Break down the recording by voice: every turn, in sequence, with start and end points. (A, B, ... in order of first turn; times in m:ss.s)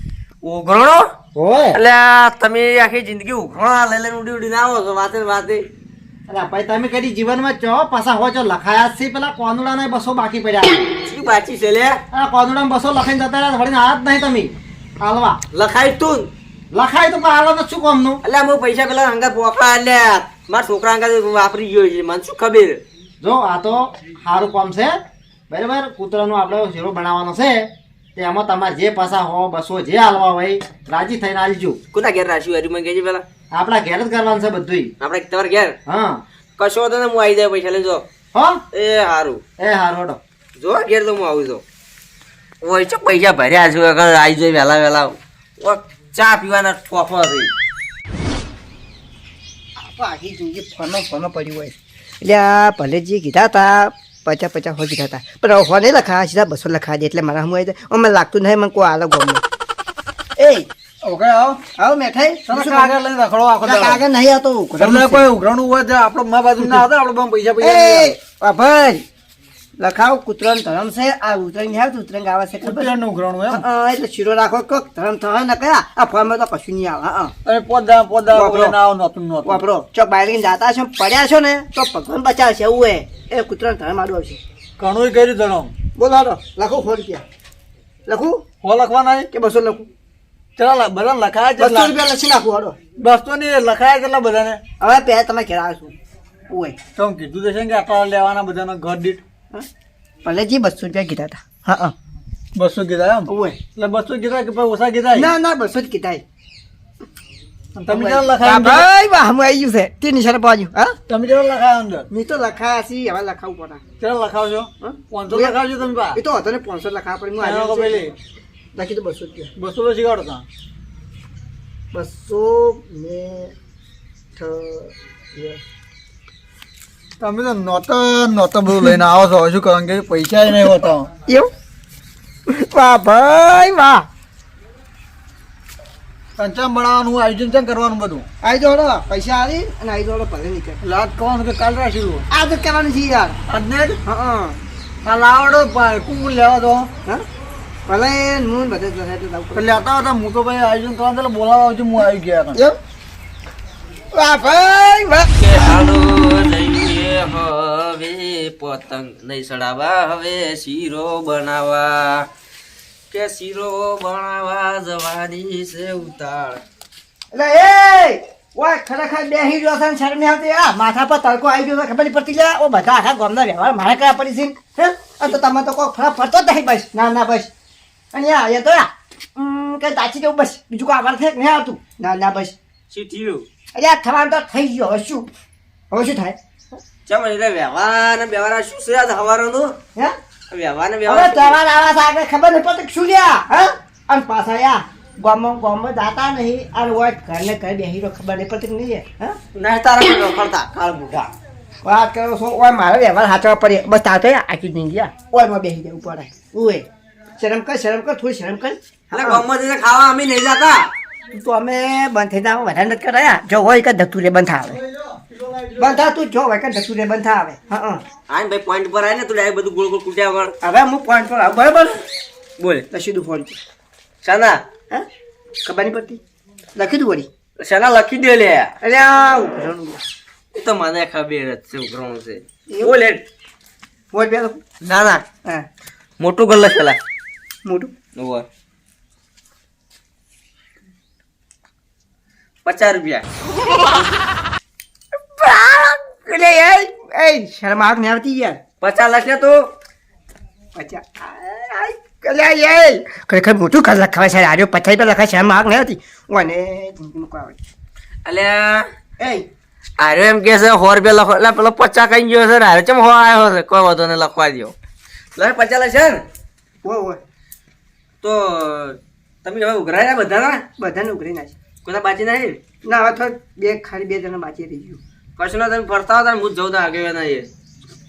0:00.4-0:01.1 A
0:01.3-0:01.8 B
0:01.7-0:05.6 A
0:06.3-0:10.9 B
0:11.0-0:12.0 A
0:12.1-0:15.4 B
0:15.5-0:16.3 A
0:16.7-0:18.2 B
0:18.2-0:22.8 A
0:23.2-0:25.0 B
0:25.5-0:31.8 B
0:31.9-0:33.2 A
0:33.5-0:34.9 B
0:35.0-0:35.8 A
0:35.9-0:36.2 B
0:36.6-0:38.0 A
0:38.3-0:38.6 B
0:38.7-0:39.4 A
0:39.6-0:40.2 B
0:40.6-0:41.6 A
0:42.6-0:47.5 A
0:49.8-0:59.4 C
1:00.4-1:00.7 C
1:01.0-1:01.6 D
1:01.8-1:02.9 C
1:02.5-1:04.0 D
1:03.6-1:05.3 C
1:04.8-1:08.2 D
1:06.6-1:06.8 C
1:07.6-1:09.0 C
1:09.8-1:12.9 C
1:12.6-1:13.6 D
1:13.5-1:17.3 C
1:17.4-1:19.6 D
1:18.3-1:18.8 C
1:19.4-1:24.4 C
1:24.8-1:25.7 D
1:26.0-1:27.2 C
1:28.1-1:28.4 C
1:28.6-1:29.3 D
1:29.3-1:29.9 C
1:30.6-1:31.9 D
1:31.6-1:32.8 C
1:33.0-1:34.6 D
1:34.8-1:35.9 C
1:36.5-1:36.8 C
1:37.0-1:39.2 D
1:40.2-1:41.9 C
1:42.5-1:45.3 D
1:43.3-1:43.6 C
1:45.1-1:46.2 C
1:47.8-1:48.8 D
1:47.9-1:51.0 C
1:51.1-1:52.1 D
1:52.1-1:53.8 C
1:54.0-1:56.2 D
1:54.8-1:55.6 C
1:56.1-1:58.1 C
1:57.4-1:58.1 D
1:58.7-1:59.5 C
1:59.6-2:00.4 D
2:01.9-2:03.5 C
2:04.4-2:05.6 C
2:07.2-2:11.1 D
2:12.5-2:14.0 C
2:16.4-2:18.2 D
2:18.4-2:20.8 C
2:20.8-2:22.2 D
2:22.3-2:23.4 C
2:23.5-2:24.0 D
2:24.0-2:24.6 C
2:25.0-2:26.9 D
2:27.9-2:29.7 C
2:29.5-2:32.6 D
2:34.1-2:35.6 C
2:35.4-2:42.3 A
2:43.1-2:46.6 A
2:47.3-2:57.5 C
2:58.1-3:02.5 C
3:02.9-3:03.4 A
3:03.7-3:05.3 C
3:05.9-3:06.4 C
3:07.1-3:09.8 A
3:10.5-3:11.6 A
3:11.0-3:19.4 C
3:19.5-3:21.3 A
3:21.8-3:26.8 C
3:27.4-3:29.4 C
3:29.1-3:30.9 A
3:31.3-3:34.8 C
3:35.8-3:38.0 C
3:38.3-3:40.5 A
3:40.6-3:41.9 C
3:42.6-3:42.8 A
3:42.9-3:43.6 C
3:44.2-3:44.6 A
3:45.6-3:46.2 C
3:46.8-3:47.3 C
3:47.6-3:48.7 A
3:48.8-3:50.0 C
3:50.5-3:53.2 A
3:54.1-3:54.6 C
3:54.8-3:55.2 A
3:56.2-3:57.0 A
3:57.6-3:57.9 C
3:58.2-3:58.4 A
4:02.6-4:03.2 A
4:05.4-4:08.6 C
4:08.8-4:09.6 A
4:10.7-4:17.6 C
4:18.2-4:18.8 A
4:19.2-4:19.4 C
4:20.0-4:24.7 A
4:25.4-4:26.2 A
4:26.8-4:27.2 C
4:28.2-4:30.6 A
4:30.8-4:31.5 C
4:31.8-4:32.6 A
4:32.8-4:35.0 C
4:35.4-4:37.5 A